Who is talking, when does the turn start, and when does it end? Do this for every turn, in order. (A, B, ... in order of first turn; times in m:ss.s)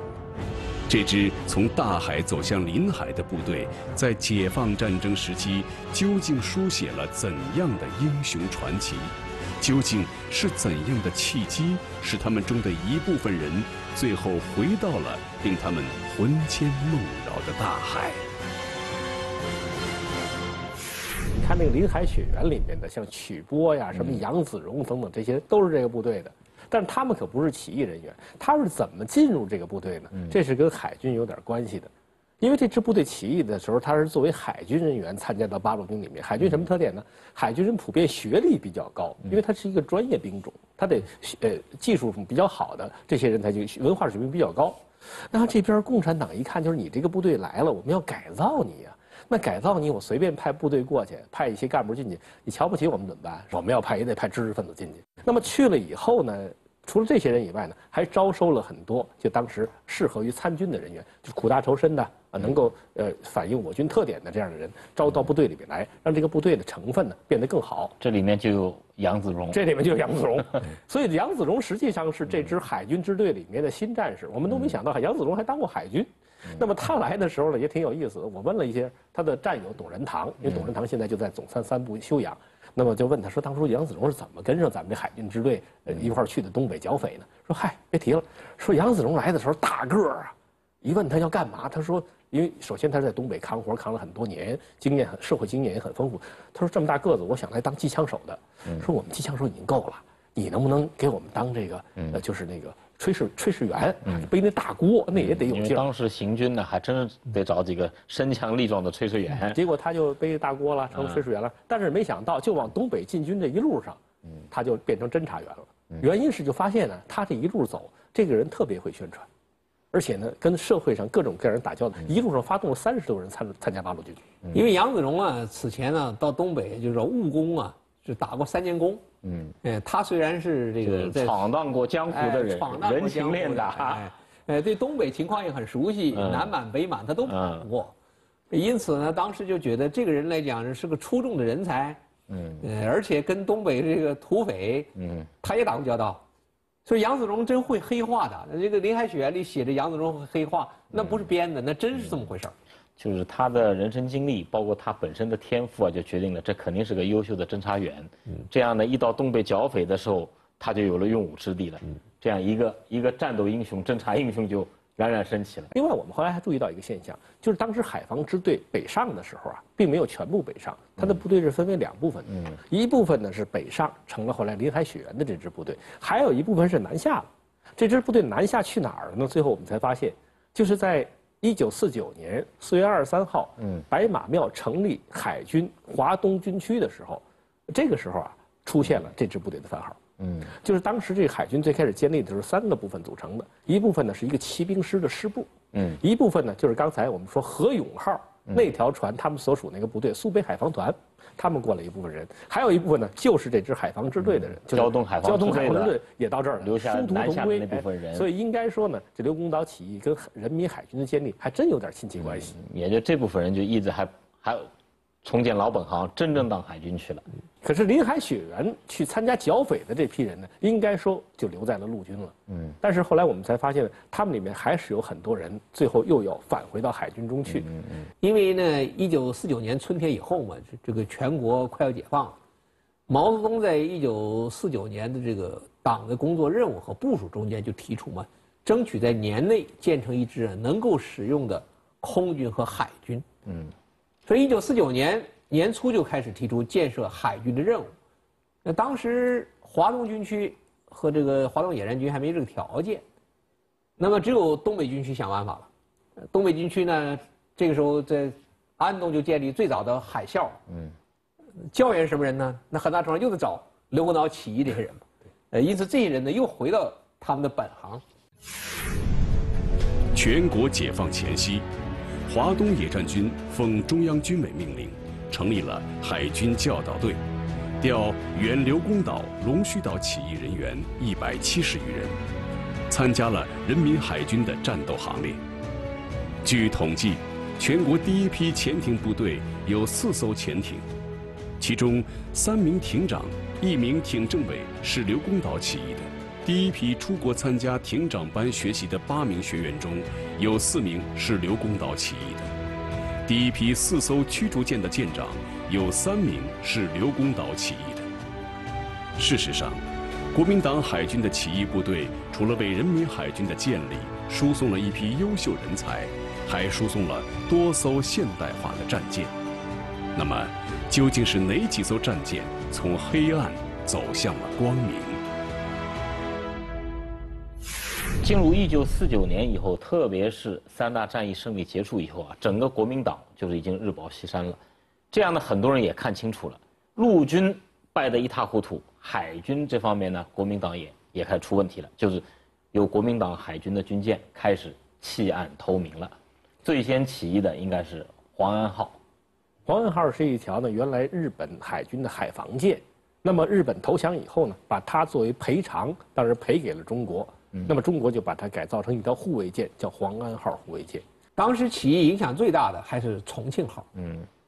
0:00.9-0:18.2 A
0:21.3-1:07.9 B
1:08.0-1:09.6 C
1:09.5-1:45.8 B
1:45.2-1:49.6 C
1:49.5-1:59.3 B
1:59.9-2:04.3 B
2:04.5-2:09.0 D
2:09.2-2:09.5 C
2:09.6-2:11.4 D
2:10.8-2:14.0 C
2:12.1-2:17.9 D
2:16.1-2:16.5 C
2:17.3-2:17.6 C
2:18.5-2:22.0 D
2:22.3-2:22.6 C
2:22.6-2:24.9 D
2:25.0-2:25.3 C
2:25.4-2:26.2 D
2:26.8-2:32.5 D
2:33.0-2:45.7 C
2:45.7-3:32.6 B
3:10.2-3:10.5 C
3:15.7-3:16.0 C
3:24.7-3:26.0 C
3:26.6-3:28.3 C
3:32.5-3:34.7 C
3:35.2-3:37.2 C
3:37.6-3:47.7 B
3:48.2-3:52.4 D
3:53.1-4:03.2 D
4:03.4-4:03.7 C
4:04.2-4:07.9 D
4:08.6-4:13.0 D
4:14.0-4:15.7 D
4:16.3-4:20.6 D
4:21.7-4:28.0 D
4:30.1-4:31.6 A
4:32.3-4:37.2 A
4:37.8-4:42.2 A
4:42.9-4:45.4 A
4:46.4-4:50.8 A
4:51.6-5:02.5 A
5:03.2-5:08.1 A
5:09.2-5:19.3 A
5:20.1-5:25.2 A
5:28.2-5:34.6 C
5:35.1-5:49.0 C
5:49.6-6:01.0 B
6:01.4-6:03.9 D
6:03.9-6:04.3 C